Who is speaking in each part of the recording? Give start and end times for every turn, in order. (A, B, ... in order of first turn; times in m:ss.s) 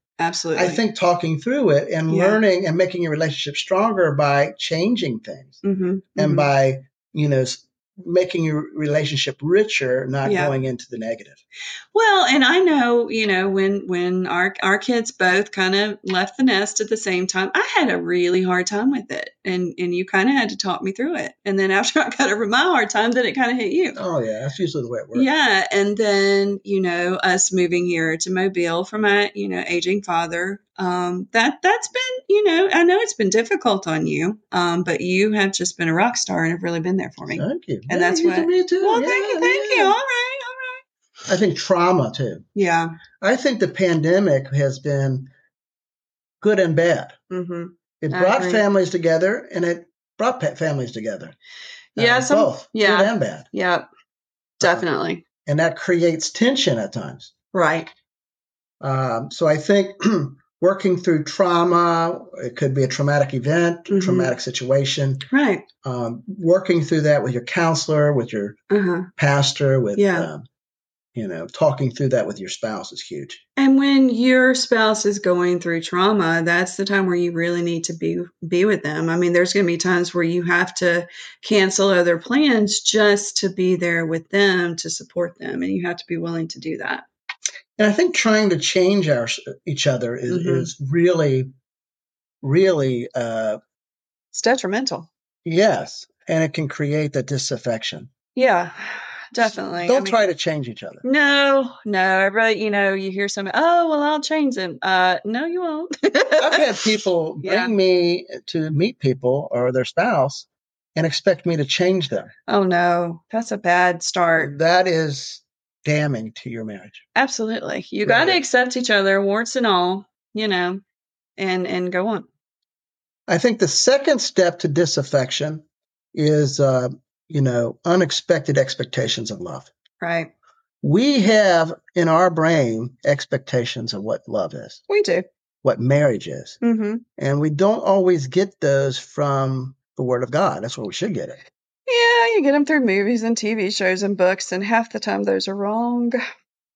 0:00.2-0:00.8 A
0:00.6-0:05.6 B
0:02.1-0:02.4 A
0:05.6-0:06.5 A
0:06.2-0:11.4 B
0:10.2-0:10.6 A
0:11.9-0:24.0 A
0:24.0-0:25.3 B
0:25.1-0:40.8 A
0:37.3-0:40.0 B
0:41.3-0:42.4 B
0:42.6-0:43.0 A
0:43.2-0:45.3 B
0:46.4-0:47.2 B
0:47.3-0:48.6 A
0:48.0-0:51.4 B
0:52.0-0:53.9 A
0:52.0-0:53.5 B
0:54.6-0:55.2 A
0:54.6-0:54.9 B
0:55.4-0:57.3 B
0:57.5-0:57.9 A
0:58.8-1:05.2 B
1:03.9-1:04.4 A
1:05.3-1:05.7 A
1:05.8-1:08.6 B
1:08.7-1:09.1 A
1:09.2-1:10.4 B
1:10.0-1:10.3 A
1:11.2-1:13.4 B
1:13.6-1:27.0 A
1:27.8-1:31.5 B
1:30.3-1:30.7 A
1:32.4-1:33.6 B
1:34.3-1:35.1 A
1:35.4-1:38.1 B
1:38.4-1:40.2 A
1:39.8-1:41.0 B
1:41.0-1:46.9 A
1:46.4-1:52.3 B
1:47.4-1:47.7 A
1:52.5-1:54.5 A
1:54.4-1:57.0 B
1:57.2-2:00.8 A
1:58.0-1:58.4 B
2:01.4-2:02.3 A
2:03.3-2:09.7 B
2:10.0-2:10.3 A
2:10.8-2:14.8 B
2:14.9-2:15.3 A
2:15.6-2:16.6 B
2:16.6-2:17.0 A
2:17.2-2:21.4 B
2:21.9-2:26.2 A